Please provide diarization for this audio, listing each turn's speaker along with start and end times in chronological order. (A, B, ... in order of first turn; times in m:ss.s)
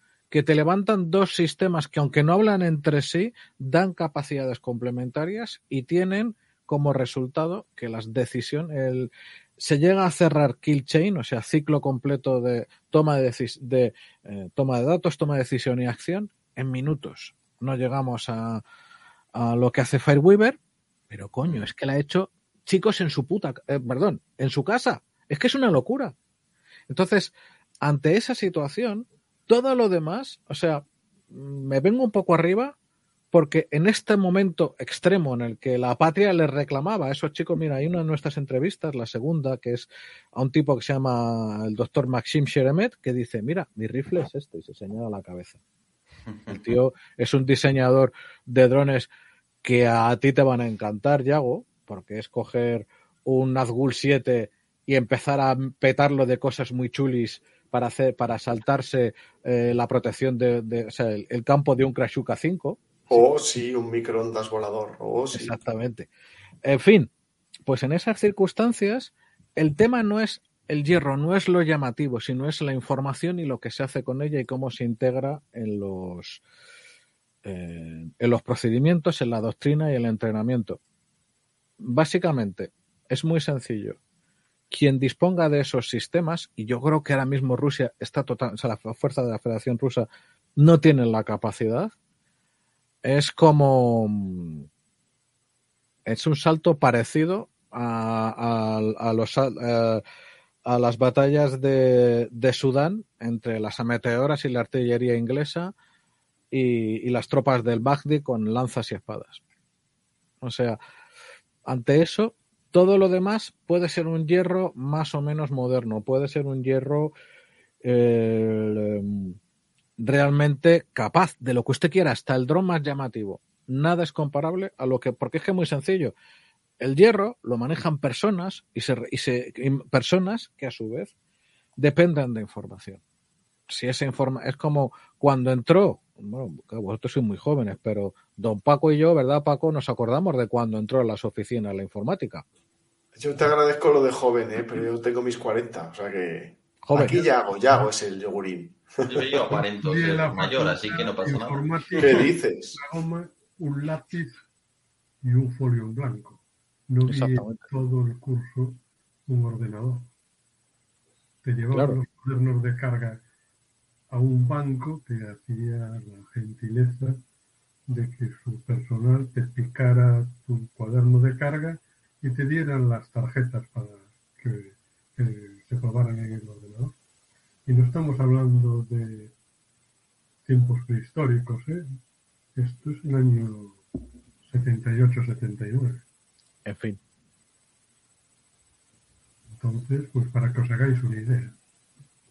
0:00.3-0:18.6 A
0:19.4-0:20.6 A
0:21.1-0:26.1 A
0:26.9-0:32.8 A
0:33.3-0:45.6 A
0:46.3-0:46.6 B
0:46.5-0:49.1 A
0:49.6-1:03.2 A
1:03.1-1:05.5 C
1:05.3-1:06.1 A
1:06.6-1:07.1 A
1:07.7-1:16.4 A
1:17.4-1:20.8 A
1:21.8-1:24.0 A
1:24.7-1:31.9 A
1:33.0-1:34.7 A
1:36.1-1:40.0 A
1:40.7-1:45.7 A
1:46.5-1:49.4 A
1:50.4-1:50.8 A
1:51.7-1:57.1 A
1:57.8-1:59.4 A
2:00.0-2:06.1 A
2:06.8-2:11.1 A
2:11.8-2:13.0 A
2:13.7-2:22.4 A
2:23.2-2:29.3 C
2:26.8-2:27.3 A
2:29.1-2:32.3 B
2:29.5-2:34.4 D
2:32.0-2:32.8 C
2:35.2-2:40.1 D
2:37.1-2:37.7 A
2:41.4-2:43.2 D
2:41.7-2:42.0 A
2:44.1-2:47.2 D
2:47.9-2:57.0 D
2:57.7-2:59.3 D
3:00.5-3:01.9 D
3:02.6-3:03.8 D
3:04.5-3:06.0 D
3:06.6-3:07.0 A
3:09.6-3:11.6 D